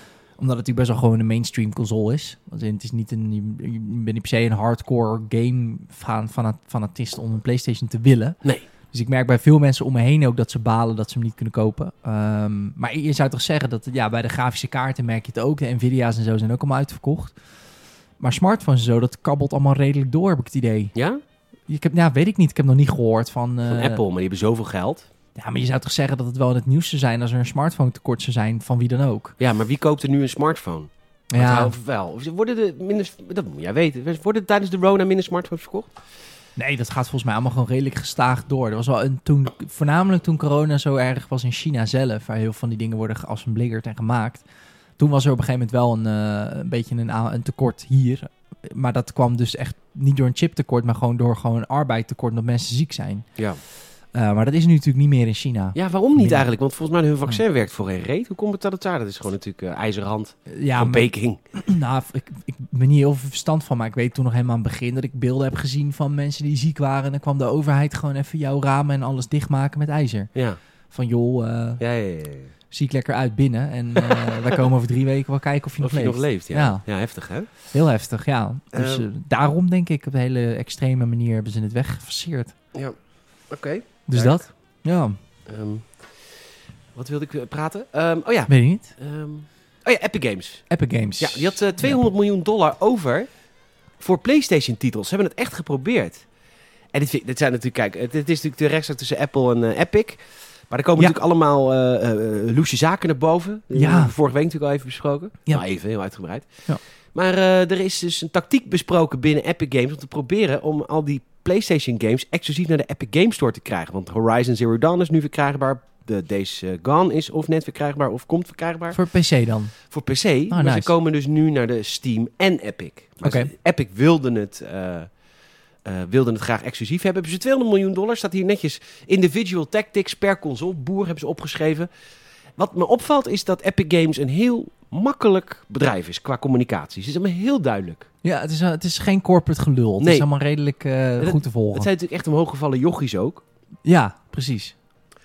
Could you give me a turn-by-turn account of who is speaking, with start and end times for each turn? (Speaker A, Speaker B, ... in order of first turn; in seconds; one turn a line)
Speaker A: 0.4-17.4
Speaker A: 18.2-20.9
Speaker B: 20.9-21.2
Speaker A: 21.7-24.0
Speaker B: 23.6-25.1
Speaker A: 25.4-29.4
Speaker B: 29.4-35.9
Speaker A: 31.3-31.7
Speaker A: 36.6-44.4
Speaker A: 45.0-53.3
Speaker A: 54.1-56.4
Speaker B: 55.7-61.4
Speaker A: 60.5-70.3
Speaker A: 70.9-71.8
Speaker B: 71.8-72.5
Speaker A: 72.7-76.8
Speaker B: 74.0-74.6
Speaker B: 75.8-77.5
Speaker A: 77.6-82.5
Speaker B: 78.7-79.1
Speaker B: 83.5-84.4
Speaker A: 84.1-85.2
Speaker B: 85.5-86.1
Speaker B: 86.9-90.7
Speaker A: 88.5-88.9
Speaker A: 90.7-92.0
Speaker B: 91.2-93.3
Speaker B: 94.0-96.2
Speaker B: 96.9-106.5
Speaker A: 103.7-104.1
Speaker B: 107.1-119.0
Speaker A: 118.9-119.7
Speaker B: 119.9-125.1
Speaker A: 120.5-120.9
Speaker A: 123.2-123.5
Speaker B: 125.8-131.9
Speaker B: 132.6-138.1
Speaker A: 138.2-141.9
Speaker B: 140.0-140.3
Speaker B: 141.2-143.4
Speaker A: 143.8-144.7